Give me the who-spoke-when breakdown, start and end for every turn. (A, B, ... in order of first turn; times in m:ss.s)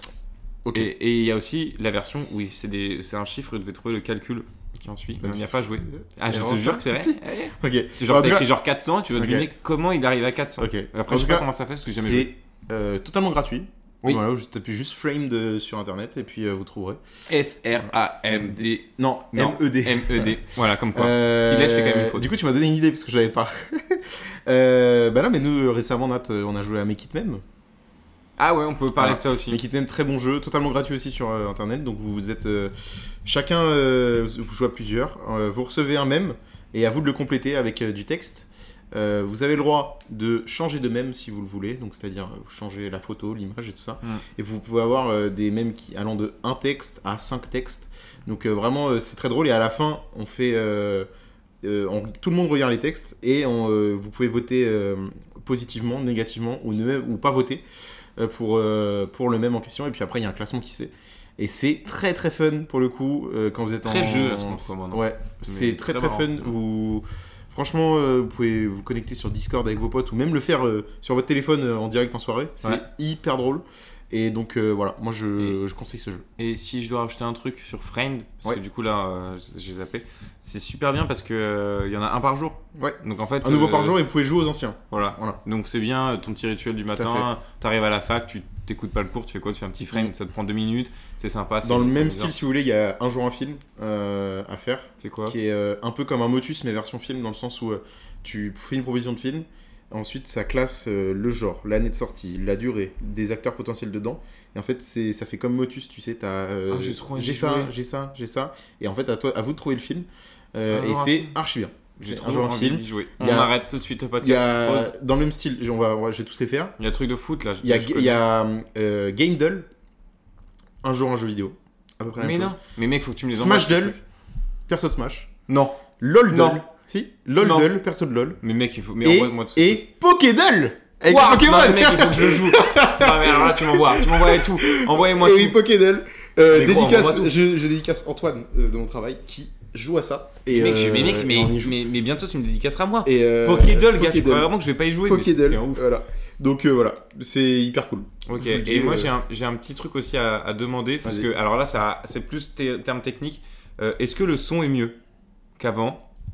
0:00.6-0:00.9 A
0:00.7-0:12.3 B
0:05.2-0:08.5 A
0:09.2-0:09.5 A
0:10.6-0:17.0 A
0:17.3-0:22.3 B
0:18.3-0:20.4 A
0:20.9-0:27.4 A
0:28.4-0:29.6 B
0:29.0-0:51.1 A
0:51.6-0:57.6 A
0:58.2-1:16.3 A
1:03.8-1:06.5 B
1:16.4-1:24.0 B
1:22.8-1:25.4 A
1:24.9-1:32.3 B
1:27.0-1:27.3 A
1:31.6-1:53.5 A
1:35.0-1:35.4 B
1:46.7-1:47.7 B
1:50.7-1:51.4 B
1:52.0-1:54.9 B
1:54.2-1:56.8 A
1:56.8-1:58.2 B
1:57.6-1:59.7 A
2:00.8-2:02.6 A
2:02.2-2:04.0 B
2:03.3-2:04.0 A
2:04.7-2:05.3 A
2:05.5-2:05.8 B
2:06.0-2:08.4 A
2:06.3-2:06.6 B
2:07.4-2:07.7 B
2:08.4-2:09.8 B
2:09.0-2:21.8 A
2:11.0-2:15.6 B
2:16.5-2:17.3 B
2:20.5-2:25.8 B
2:23.0-2:24.5 A
2:25.0-2:29.1 A
2:28.3-2:35.0 B
2:31.0-2:31.3 A
2:35.6-2:36.0 B